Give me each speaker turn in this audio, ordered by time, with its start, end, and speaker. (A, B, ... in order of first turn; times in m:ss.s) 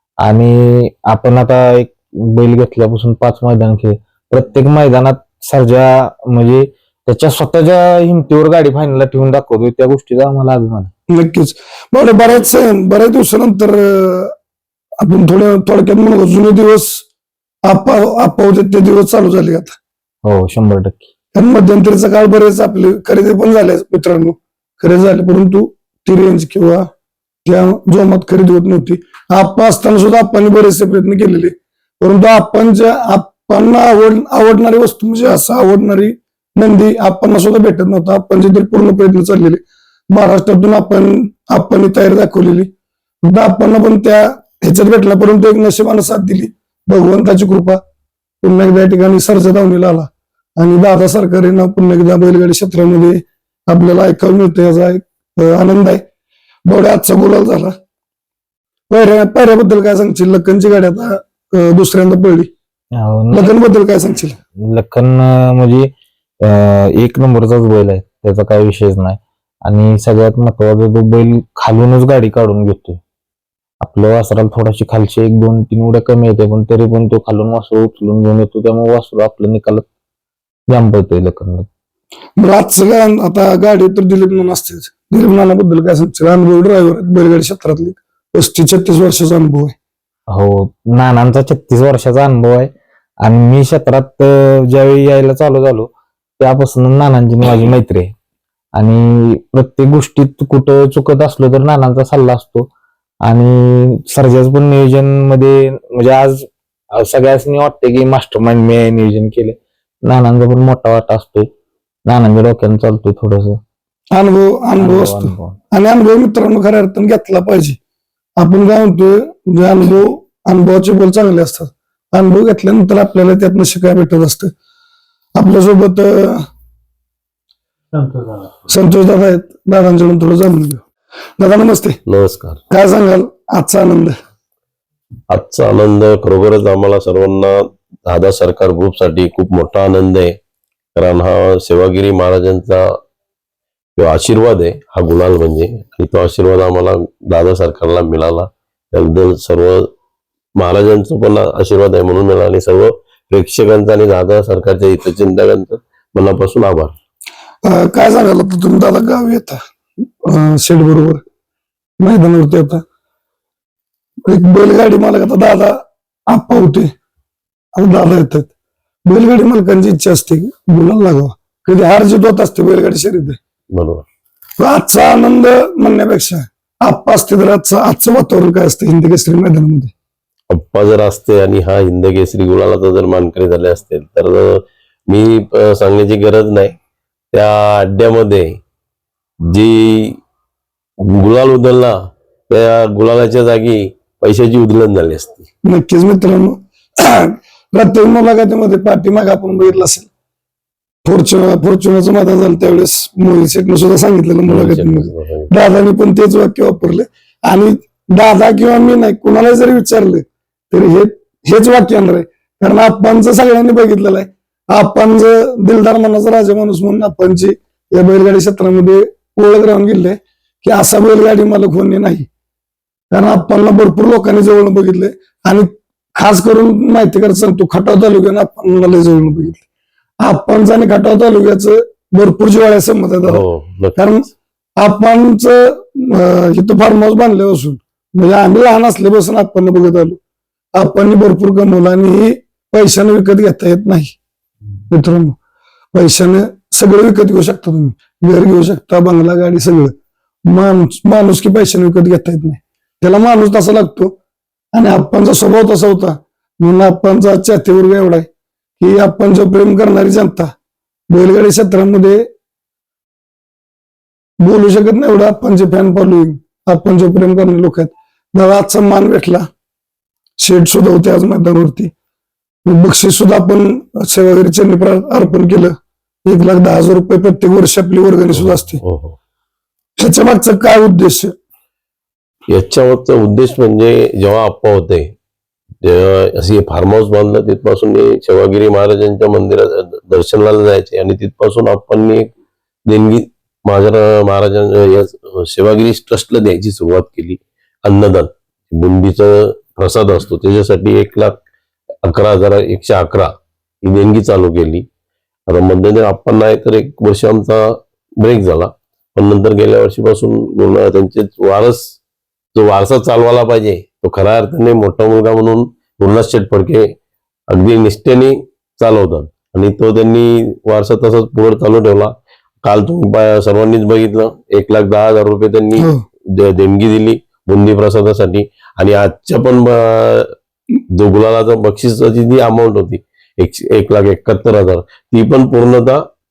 0:00.2-0:10.9 A
0:11.1-0:14.3 B
0:15.0-0:17.0 B
0:17.7-0:19.8 B
0:20.2-0:21.1 A
0:21.4-0:26.8 B
0:27.4-0:42.7 B
0:43.2-0:47.8 B
0:48.4-0:56.0 B
0:56.7-0:57.7 B
0:58.9-1:02.5 B
1:03.0-1:03.6 A
1:03.3-1:04.4 B
1:04.7-1:05.9 A
1:06.4-1:13.0 A
1:13.8-1:19.9 A
1:20.7-1:21.7 A
1:22.4-1:29.8 B
1:30.3-1:32.7 A
1:33.2-1:38.1 A
1:38.8-1:42.7 A
1:43.3-1:51.5 A
1:52.1-1:53.6 A
1:54.1-1:57.8 B
1:54.8-1:55.6 A
1:58.4-2:04.5 B
2:05.4-2:06.4 B
2:08.7-2:10.8 B
2:11.4-2:12.0 B
2:12.1-2:12.6 C
2:12.7-2:14.1 B
2:15.3-2:20.4 C
2:21.0-2:22.8 C
2:24.0-2:29.9 C
2:30.6-2:36.9 C
2:37.6-2:39.6 B
2:40.2-2:41.2 B
2:42.0-2:42.8 B
2:44.3-2:45.8 B
2:46.3-2:46.9 B
2:47.8-2:48.5 B
2:49.1-2:53.4 B
2:53.8-2:54.0 C
2:54.6-2:59.9 B
3:00.5-3:06.8 C
3:07.3-3:08.6 C
3:09.5-3:10.2 C
3:11.2-3:11.9 C
3:12.5-3:15.4 C
3:15.6-3:20.1 B
3:21.0-3:42.3 B
3:24.5-3:25.5 C
3:43.1-3:49.6 B
3:50.2-3:53.4 B
3:53.2-3:54.1 C
3:54.0-4:00.2 B
4:00.8-4:04.2 B
4:04.9-4:05.4 B
4:05.9-4:09.9 B
4:10.5-4:14.1 B
4:14.7-4:18.3 B
4:18.8-4:20.5 B
4:21.1-4:22.2 B
4:24.4-4:29.4 B
4:30.4-4:31.9 B
4:32.7-4:35.7 B
4:36.3-4:38.8 B
4:38.3-4:39.2 C
4:40.0-4:41.3 B
4:42.5-4:45.1 C
4:45.8-4:52.3 C
4:52.9-5:01.4 C
5:02.0-5:04.8 C
5:05.5-5:11.8 C
5:12.6-5:16.8 C
5:17.5-5:30.2 C
5:30.9-5:36.0 C